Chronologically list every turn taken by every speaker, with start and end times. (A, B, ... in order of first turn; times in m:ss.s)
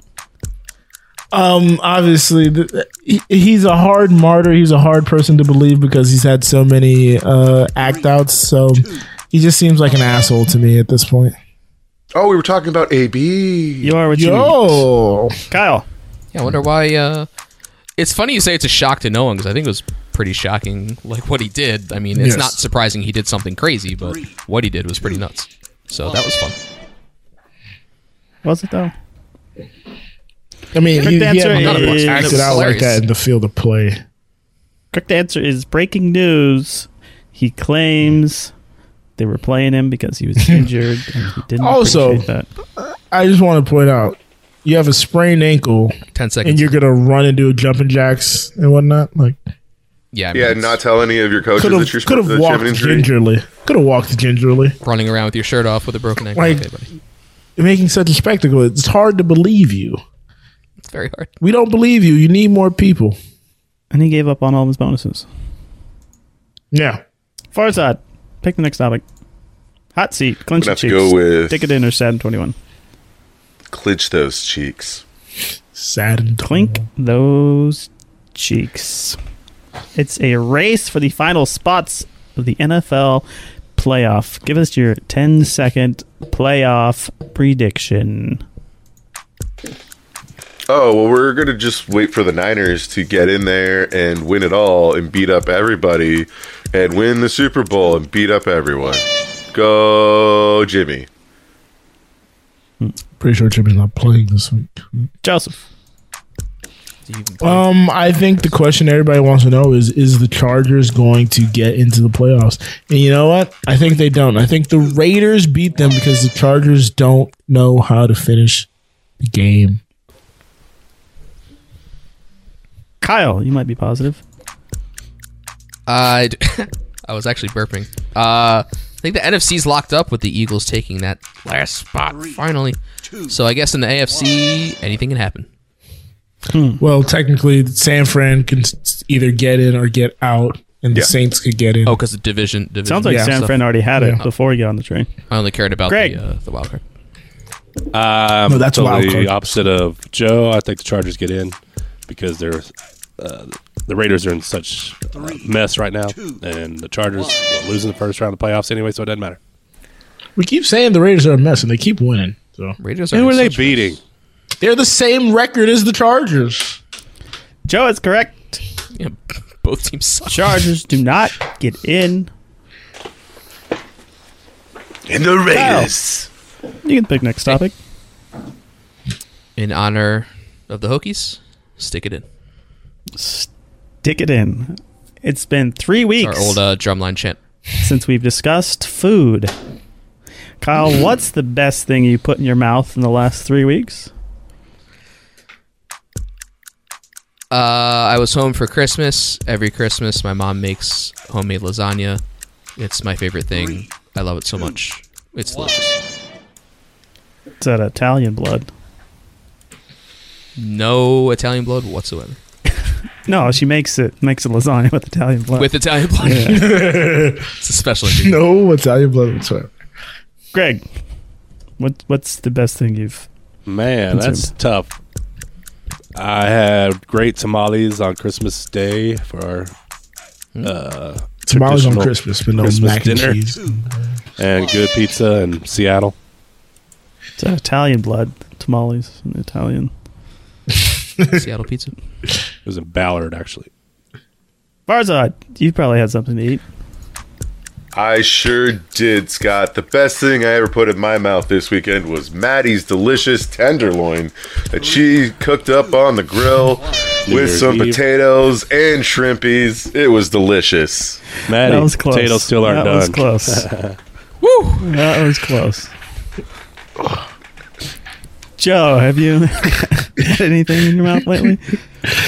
0:01.3-0:11.4 A
0:12.1-0:14.0 B
0:13.8-0:14.9 C
0:14.1-0:15.4 A
0:15.5-0:15.8 C
0:16.3-0:17.3 D
0:18.0-0:26.6 D
0:22.1-0:22.6 A
0:28.4-0:28.9 C
0:30.7-0:34.0 A
0:31.0-0:32.7 C
0:31.5-0:33.0 D
0:34.9-0:38.5 C
0:39.2-0:42.5 C
0:41.6-0:49.4 A
0:46.1-0:46.8 D
0:50.1-0:50.8 D
0:50.3-0:53.1 B
0:51.6-0:54.8 A
0:54.8-0:56.9 D
0:56.3-0:56.6 A
0:57.6-1:00.0 A
1:00.8-1:01.3 D
1:01.4-1:03.2 A
1:03.9-1:05.3 C
1:06.7-1:07.0 A
1:07.5-1:09.0 C
1:09.9-1:12.5 C
1:10.6-1:11.7 B
1:13.7-1:15.0 B
1:15.7-1:16.8 A
1:16.4-1:19.2 C
1:19.9-1:23.2 C
1:23.8-1:28.4 C
1:30.7-1:41.1 B
1:43.2-1:44.9 A
1:45.2-1:45.6 C
1:47.1-1:48.6 D
1:47.4-1:58.7 A
1:59.2-1:59.8 A
2:03.0-2:04.2 C
2:05.9-2:15.5 D
2:16.5-2:16.8 C
2:16.8-2:22.0 A
2:21.8-2:23.6 D
2:22.8-2:25.1 C
2:23.0-2:23.3 A
2:24.0-2:24.2 A
2:25.3-2:26.8 D
2:25.9-2:26.2 C
2:27.9-2:31.6 E
2:28.4-2:29.6 A
2:32.1-2:39.4 E
2:40.4-2:42.8 A
2:42.8-2:44.0 D
2:43.1-2:44.0 E
2:44.6-2:46.8 A
2:47.7-2:48.6 C
2:48.9-2:50.6 D
2:50.3-2:52.3 C
2:55.1-2:56.2 B
2:55.5-2:55.9 C
2:56.8-2:57.7 C
2:59.6-3:02.2 D
3:03.2-3:03.5 C
3:04.0-3:06.6 C
3:06.2-3:07.4 D
3:07.8-3:09.5 C
3:10.6-3:14.1 C
3:17.5-3:22.2 D
3:22.8-3:26.0 D
3:27.6-3:28.7 C
3:30.6-3:32.4 D
3:33.2-3:36.7 C
3:35.5-3:36.7 D
3:36.4-3:37.5 A
3:37.6-3:38.4 D
3:38.1-3:39.7 A
3:40.5-3:40.9 C
3:41.8-3:43.3 C
3:43.6-3:44.9 E
3:44.1-3:44.5 C
3:46.1-3:49.7 E
3:50.6-3:53.4 E
3:51.5-3:53.8 A
3:54.4-3:56.1 E
3:57.4-3:59.9 C
4:01.3-4:01.9 D
4:02.6-4:03.7 E
4:04.9-4:06.6 C
4:07.9-4:21.2 B
4:17.3-4:18.0 E
4:21.5-4:24.0 E
4:21.5-4:23.6 C
4:24.4-4:24.8 D
4:24.8-4:25.9 C
4:28.6-4:31.8 C